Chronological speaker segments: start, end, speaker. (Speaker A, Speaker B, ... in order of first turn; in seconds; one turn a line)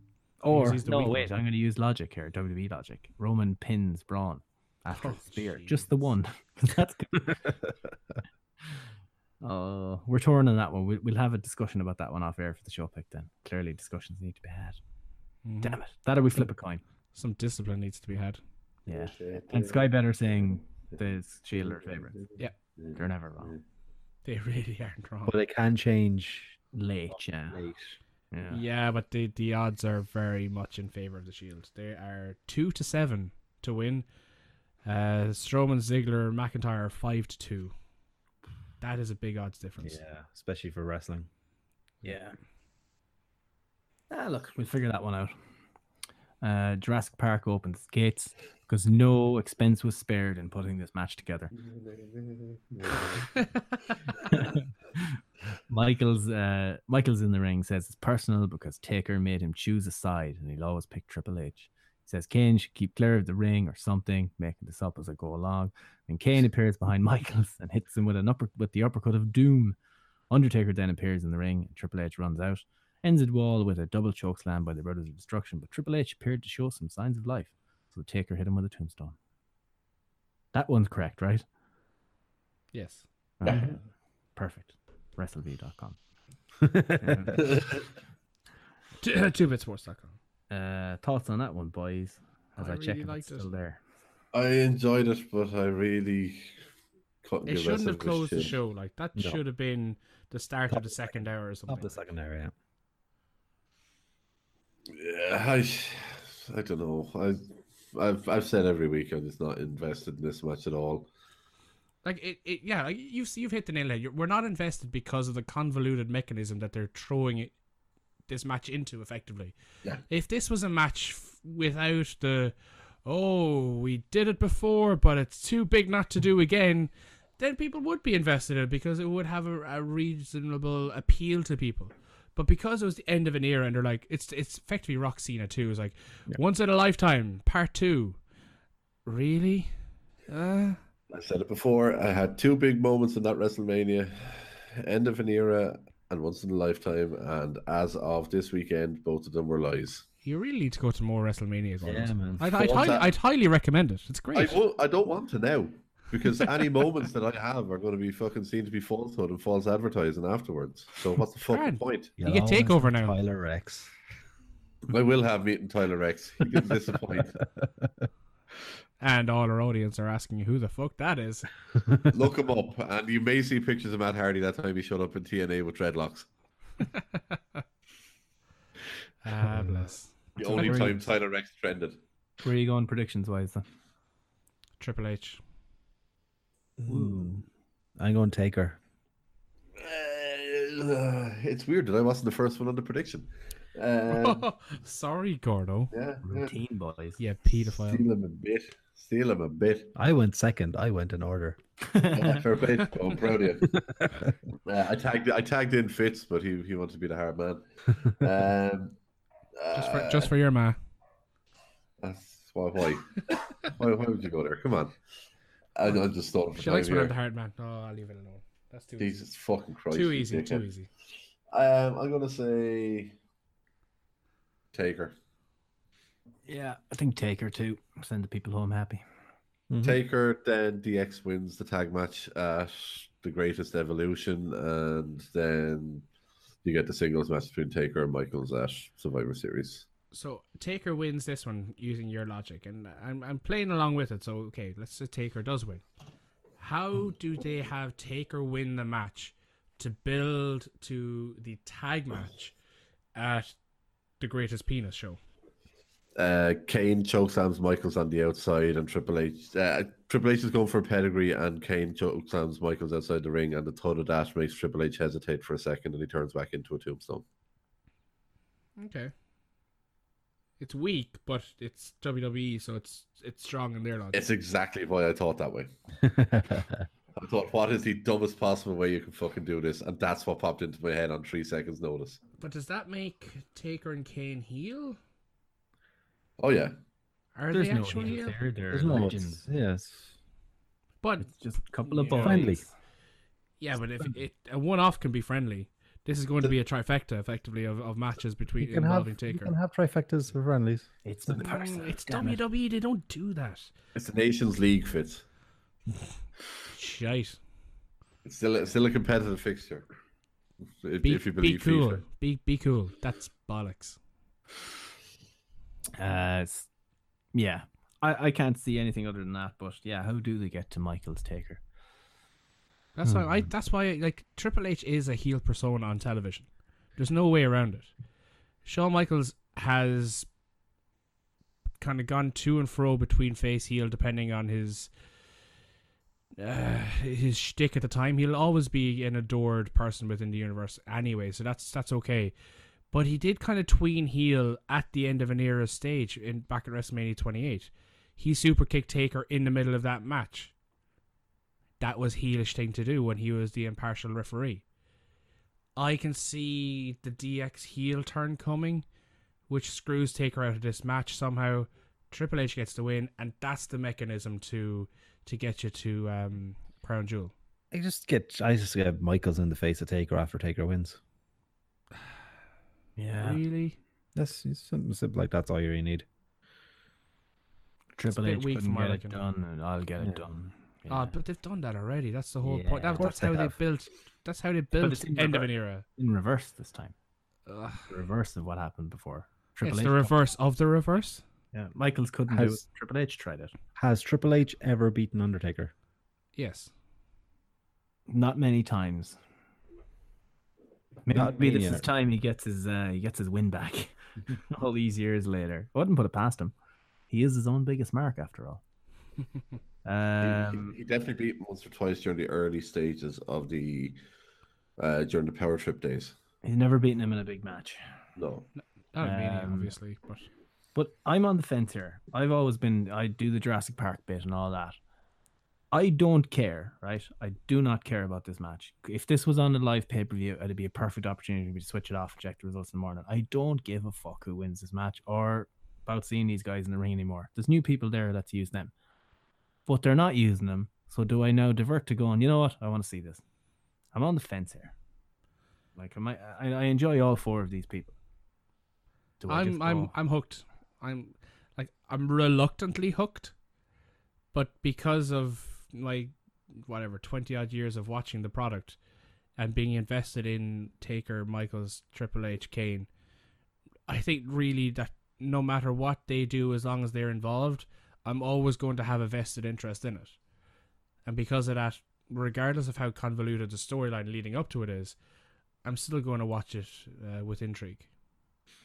Speaker A: 0.4-7.5
Speaker B: 0.5-1.3
Speaker B: 4.9-5.9
Speaker A: 9.4-14.8
Speaker B: 15.4-15.8
Speaker A: 15.6-16.8
Speaker B: 17.1-18.4
Speaker A: 18.9-22.2
Speaker C: 18.9-19.9
Speaker C: 21.6-23.6
Speaker A: 22.9-23.5
Speaker B: 24.2-25.4
Speaker D: 25.2-27.9
Speaker A: 26.7-27.6
Speaker A: 28.3-28.6
Speaker B: 28.5-34.1
Speaker B: 34.9-37.7
Speaker B: 38.8-40.0
Speaker D: 39.8-41.3
Speaker A: 42.0-42.4
Speaker A: 44.1-45.3
Speaker A: 46.4-51.5
Speaker C: 51.7-53.3
Speaker A: 54.2-69.8
Speaker A: 70.3-79.2
Speaker A: 80.5-81.5
Speaker B: 82.7-83.0
Speaker A: 83.4-83.8
Speaker A: 84.4-86.0
Speaker D: 86.6-87.3
Speaker A: 87.0-87.4
Speaker C: 87.5-87.7
Speaker B: 89.0-90.2
Speaker A: 90.5-93.8
Speaker B: 92.6-93.5
Speaker C: 94.3-96.5
Speaker C: 97.2-98.6
Speaker B: 97.5-102.0
Speaker D: 100.7-101.1
Speaker D: 101.7-102.5
Speaker C: 104.9-111.1
Speaker B: 112.0-117.5
Speaker B: 118.3-119.6
Speaker B: 120.1-138.2
Speaker B: 139.1-139.7
Speaker B: 140.3-140.8
Speaker C: 141.1-150.1
Speaker B: 150.2-154.6
Speaker D: 151.8-152.5
Speaker C: 152.4-153.1
Speaker C: 154.3-162.2
Speaker B: 161.5-163.2
Speaker D: 162.2-163.9
Speaker C: 164.9-167.4
Speaker D: 167.2-168.1
Speaker B: 169.0-171.5
Speaker C: 172.1-176.3
Speaker B: 176.8-177.2
Speaker B: 179.2-180.9
Speaker D: 179.5-179.9
Speaker C: 180.4-182.0
Speaker A: 180.4-181.1
Speaker A: 182.4-183.6
Speaker B: 184.8-185.4
Speaker D: 186.8-187.4
Speaker A: 186.9-187.3
Speaker D: 188.0-188.8
Speaker C: 189.8-194.5
Speaker B: 194.1-195.9
Speaker C: 195.9-196.5
Speaker A: 196.2-197.2
Speaker B: 197.2-198.0
Speaker C: 197.8-199.9
Speaker D: 200.0-201.6
Speaker A: 201.9-202.4
Speaker C: 202.1-203.8
Speaker D: 203.7-204.3
Speaker C: 204.7-209.0
Speaker C: 209.6-210.3
Speaker B: 209.7-210.8
Speaker C: 212.0-215.0
Speaker C: 215.8-217.1
Speaker B: 216.5-219.2
Speaker C: 219.0-220.7
Speaker B: 219.9-220.9
Speaker C: 221.5-223.2
Speaker C: 224.7-225.1
Speaker A: 226.5-229.0
Speaker D: 229.7-230.0
Speaker C: 229.8-236.1
Speaker C: 236.6-239.9
Speaker B: 240.1-245.8
Speaker B: 246.6-252.6
Speaker B: 253.2-253.5
Speaker B: 254.2-255.2
Speaker C: 256.2-267.2
Speaker B: 268.8-269.1
Speaker B: 270.6-274.2
Speaker C: 274.1-275.7
Speaker D: 276.0-276.9
Speaker C: 277.1-282.2
Speaker B: 282.4-285.0
Speaker C: 286.4-286.8
Speaker B: 287.4-288.4
Speaker A: 287.5-289.4
Speaker D: 288.7-290.1
Speaker B: 291.0-292.6
Speaker A: 291.2-292.7
Speaker D: 292.2-292.6
Speaker B: 293.6-299.5
Speaker D: 298.6-300.9
Speaker A: 301.1-302.4
Speaker B: 301.4-303.7
Speaker C: 303.9-305.2
Speaker B: 306.7-307.4
Speaker C: 308.2-309.9
Speaker C: 310.8-312.0
Speaker B: 311.0-314.0
Speaker A: 316.0-316.7
Speaker A: 317.4-321.6
Speaker B: 323.0-327.9
Speaker B: 328.6-330.3
Speaker B: 331.8-334.9
Speaker B: 336.4-342.3
Speaker B: 342.9-350.5
Speaker B: 351.8-354.6
Speaker B: 355.8-358.9
Speaker B: 359.5-367.3
Speaker D: 367.7-371.0
Speaker A: 373.0-373.4
Speaker B: 373.2-373.8
Speaker D: 374.1-376.1
Speaker A: 378.0-381.1
Speaker B: 378.1-379.2
Speaker D: 380.0-380.2
Speaker B: 380.9-385.9
Speaker A: 382.4-383.4
Speaker D: 383.0-383.5
Speaker A: 384.8-386.9
Speaker B: 387.5-387.8
Speaker A: 387.9-390.1
Speaker B: 389.6-391.2
Speaker A: 391.5-393.5
Speaker D: 392.3-392.6
Speaker D: 393.8-395.7
Speaker B: 396.4-396.7
Speaker A: 398.1-399.2
Speaker A: 401.1-406.5
Speaker D: 401.1-401.9
Speaker A: 407.1-408.6
Speaker A: 409.9-410.8
Speaker C: 410.2-414.0
Speaker C: 414.8-416.1
Speaker A: 416.4-417.8
Speaker C: 418.2-418.5
Speaker B: 418.9-420.3
Speaker A: 419.0-419.7
Speaker A: 420.8-424.8
Speaker A: 425.7-438.7
Speaker A: 439.7-443.2
Speaker A: 443.9-444.8
Speaker A: 445.8-447.9
Speaker A: 449.2-449.9
Speaker B: 449.3-453.3
Speaker B: 454.3-458.8
Speaker B: 459.4-462.9
Speaker B: 463.9-470.2
Speaker B: 471.1-475.0
Speaker B: 475.6-477.9